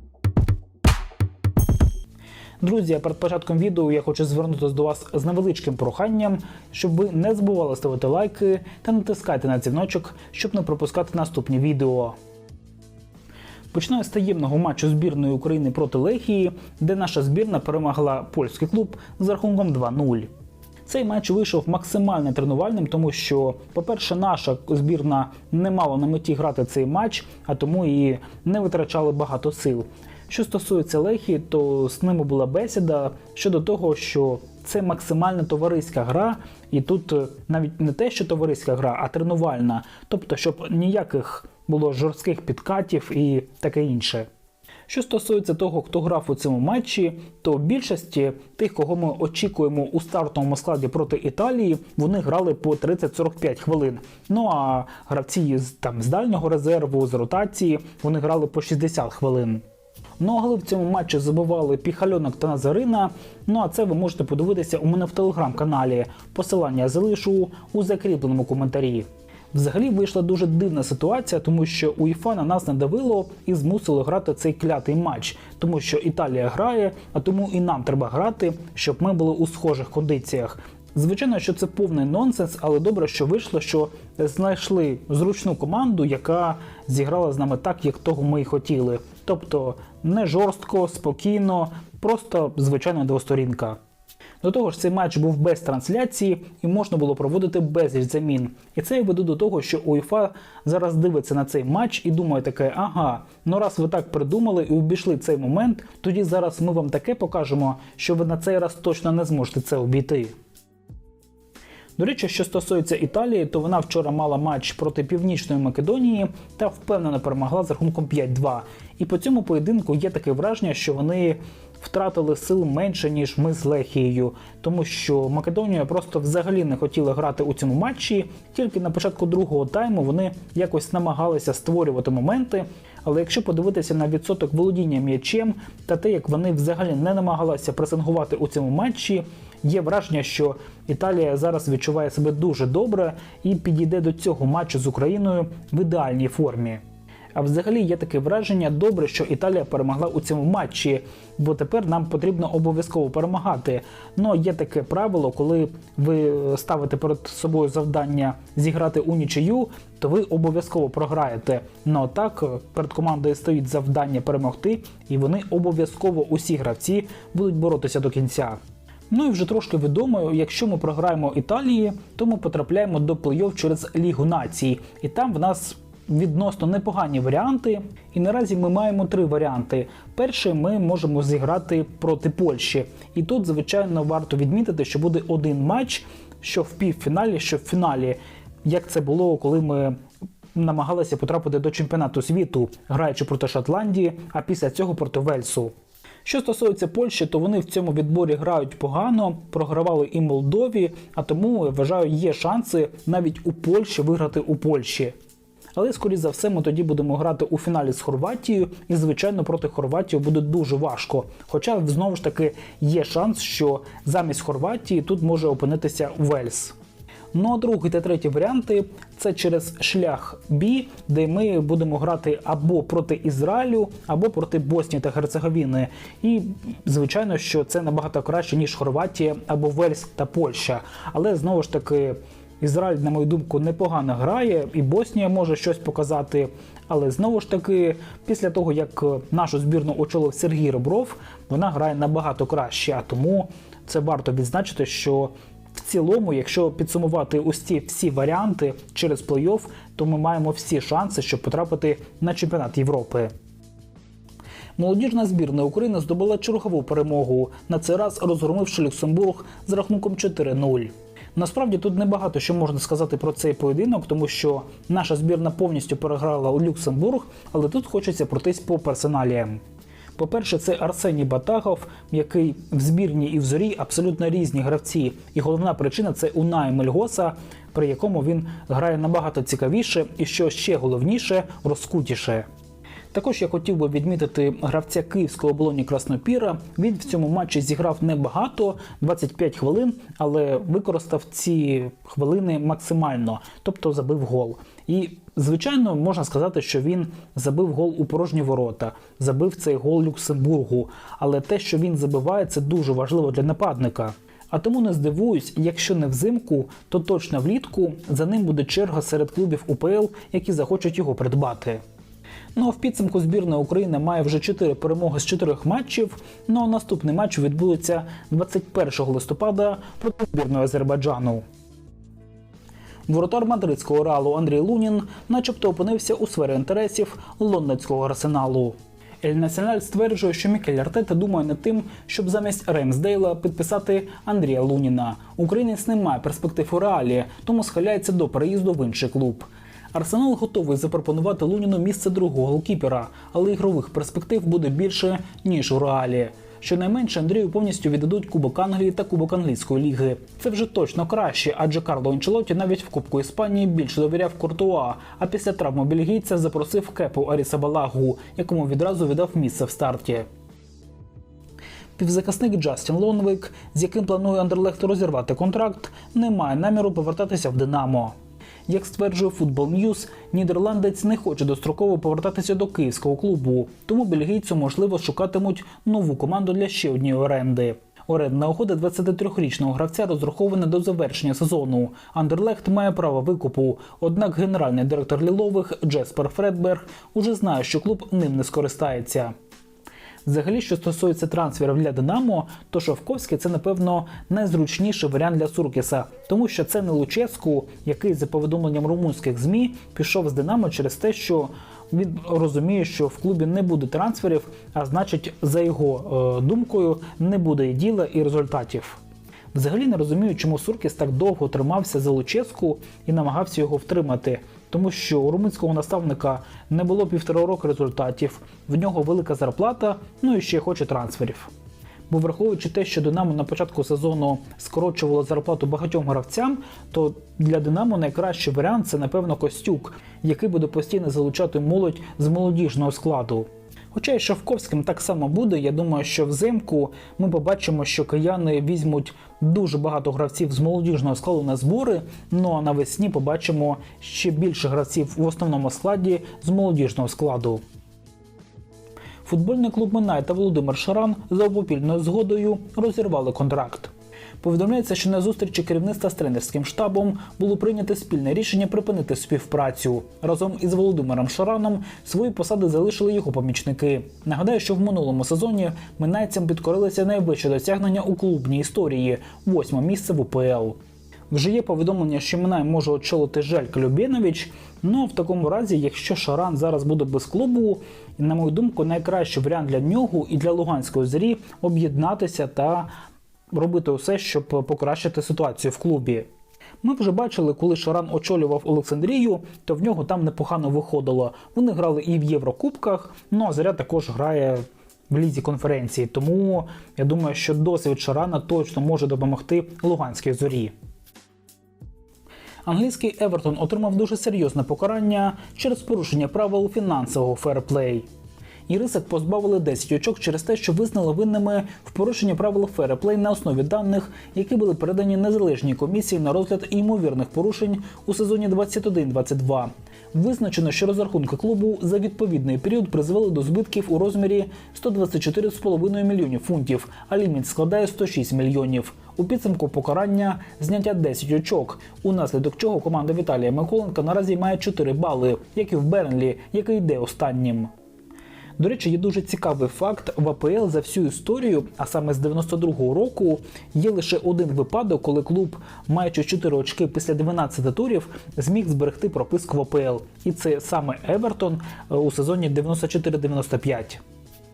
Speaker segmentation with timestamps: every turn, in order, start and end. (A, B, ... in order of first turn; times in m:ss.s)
0:02.6-0:12.1 A
0:13.7-0:20.3 A
0:20.8-0:44.3 A
0:44.9-0:59.6 A
1:00.2-1:33.8 A
1:34.4-1:50.3 A
1:52.0-2:26.8 A
2:27.3-2:48.6 A
2:49.1-3:10.0 A
3:10.5-3:15.7 A
3:16.2-3:25.1 A
3:25.8-3:36.7 A
3:37.3-4:13.3 A
4:14.8-4:29.6 A
4:30.2-4:42.5 A
4:43.1-5:11.8 A
5:12.5-5:21.4 A
5:23.1-6:00.3 A
6:02.0-6:08.1 A
6:08.7-6:29.3 A
6:30.2-6:49.0 A
6:49.5-7:01.5 A
7:02.1-7:27.6 A
7:29.2-7:50.8 A
7:51.3-8:02.9 A
8:03.5-8:06.3 A
8:06.8-8:20.7 A
8:22.6-8:28.1 A
8:28.7-8:57.7 A
8:58.6-9:14.0 A